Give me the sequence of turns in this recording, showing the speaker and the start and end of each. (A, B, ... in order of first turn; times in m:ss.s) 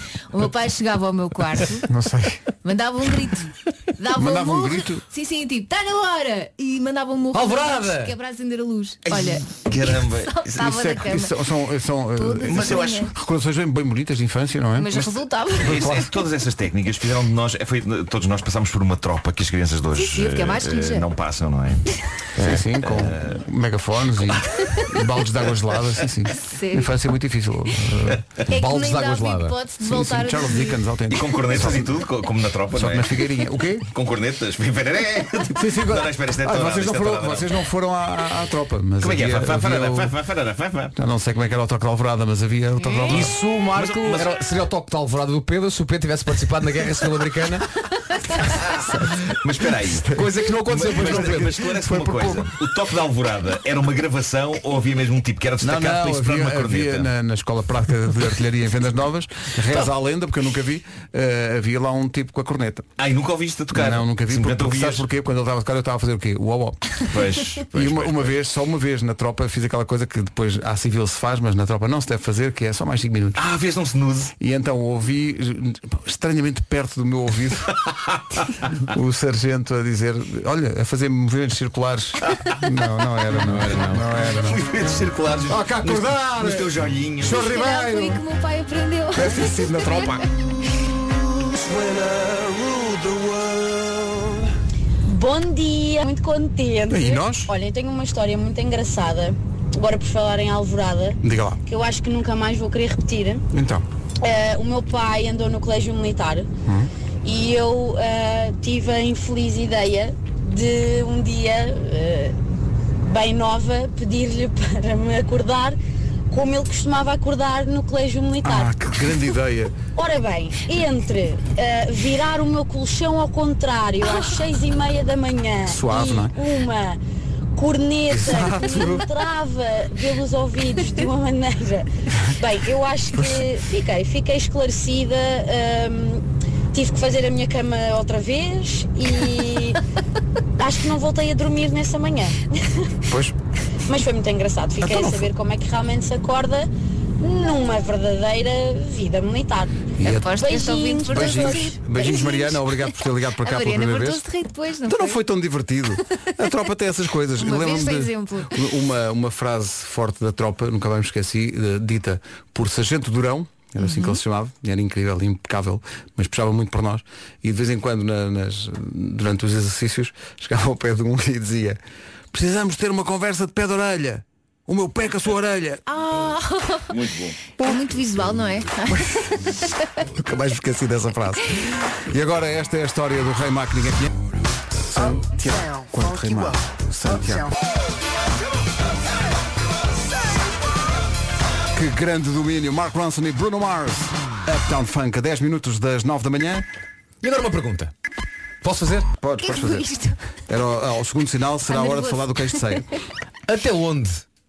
0:00.3-0:01.9 A
0:01.9-0:02.4 B
0:02.6-0:11.3 A
0:04.1-0:05.0 B
0:07.3-0:08.2 C
0:09.1-0:10.7 D
0:10.6-0:16.1 B
0:12.2-0:13.1 A
0:12.4-0:13.1 D
0:14.8-0:16.0 A
0:15.6-0:21.8 D
0:19.9-0:21.0 A
0:22.4-0:22.6 C
0:22.4-0:28.2 B
0:22.8-0:23.4 D
0:26.4-0:26.9 A
0:28.5-0:30.8 A
0:28.5-0:29.6 C
0:29.8-0:32.1 B
0:31.1-0:33.2 D
0:32.7-0:33.9 B
0:33.9-0:37.6 D
0:35.5-0:40.2 B
0:39.0-0:40.9 D
0:41.0-0:43.4 B
0:42.8-0:43.2 A
0:43.1-0:47.7 C
0:43.7-0:44.4 D
0:48.5-0:52.6 B
0:49.4-0:50.1 D
0:50.1-0:51.6 C
0:50.7-0:57.1 D
0:55.6-1:02.9 B
1:03.0-1:05.1 D
1:03.7-1:07.0 B
1:07.1-1:08.4 D
1:07.6-1:13.4 B
1:13.4-1:14.3 D
1:14.4-1:17.8 B
1:18.9-1:24.7 B
1:22.3-1:22.6 D
1:23.3-1:24.0 C
1:24.3-1:27.5 D
1:25.5-1:28.2 B
1:27.3-1:30.2 A
1:29.1-1:30.2 B
1:31.5-1:34.3 B
1:35.1-1:43.4 E
1:36.9-1:37.5 B
1:41.2-1:41.6 B
1:43.5-1:43.8 B
1:44.2-1:46.5 E
1:47.2-1:52.4 E
1:53.0-1:55.8 E
1:56.3-1:58.8 E
1:58.4-1:59.8 B
2:00.0-2:07.0 E
2:05.7-2:06.4 B
2:07.6-2:19.8 E
2:08.1-2:09.1 B
2:13.1-2:13.4 B
2:20.6-2:22.5 E
2:23.1-2:23.4 B
2:23.9-2:26.7 E
2:24.8-2:25.3 B
2:27.2-2:31.7 E
2:30.0-2:30.4 B
2:30.0-2:32.9 A
2:31.1-2:34.2 B
2:33.4-2:35.2 A
2:34.8-2:51.8 B
2:37.4-2:38.6 A
2:43.8-2:44.2 A
2:52.3-2:55.8 B
2:55.9-2:57.0 A
2:56.9-2:57.4 D
2:57.6-2:59.7 A
3:00.0-3:04.2 B
3:04.8-3:07.5 B
3:11.7-3:16.7 B
3:17.2-3:17.9 C
3:18.6-3:19.1 C
3:19.2-3:19.9 B
3:19.4-3:20.2 A
3:20.5-3:22.9 B
3:21.7-3:22.8 A
3:23.5-3:24.2 C